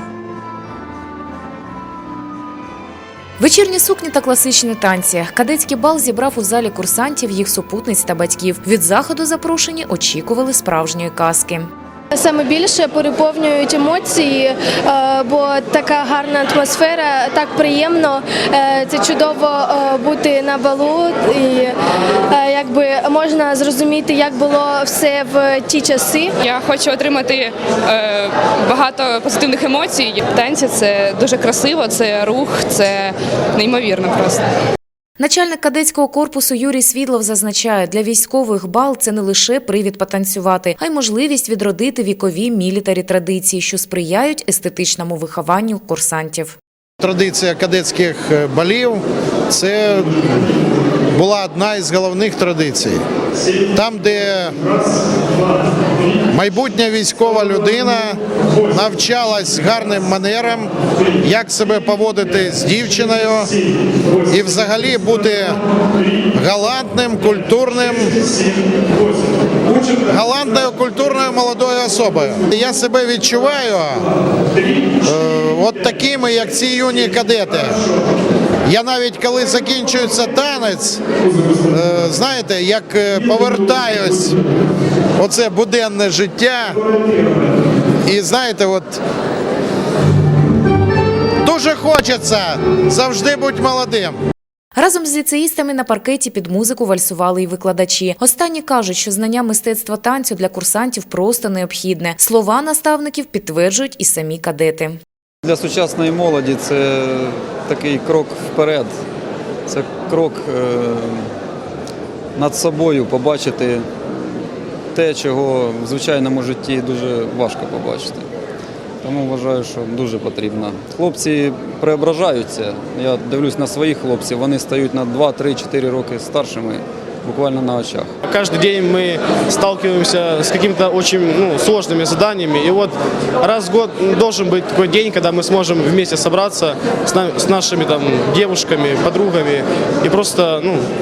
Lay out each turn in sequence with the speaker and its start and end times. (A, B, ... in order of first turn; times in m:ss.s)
0:03.4-0:11.7 A
0:12.1-0:21.8 B
0:22.3-0:26.3 B
0:26.4-0:34.4 C
0:35.2-0:46.6 A
0:47.0-0:50.2 D
0:51.1-0:53.0 D
0:53.7-0:54.6 D
0:56.3-1:00.7 D
1:01.2-1:03.6 D
1:04.3-1:05.6 D
1:06.3-1:08.2 D
1:09.8-1:14.1 D
1:15.0-1:17.8 D
1:18.7-1:21.0 D
1:21.7-1:24.4 D
1:25.2-1:26.8 D
1:28.1-1:29.0 D
1:31.4-1:34.2 D
1:34.8-1:45.0 A
1:45.4-1:48.9 E
1:49.7-1:51.3 E
1:52.4-1:53.9 E
1:54.9-1:58.3 E
1:59.0-2:08.1 E
2:08.2-2:20.9 F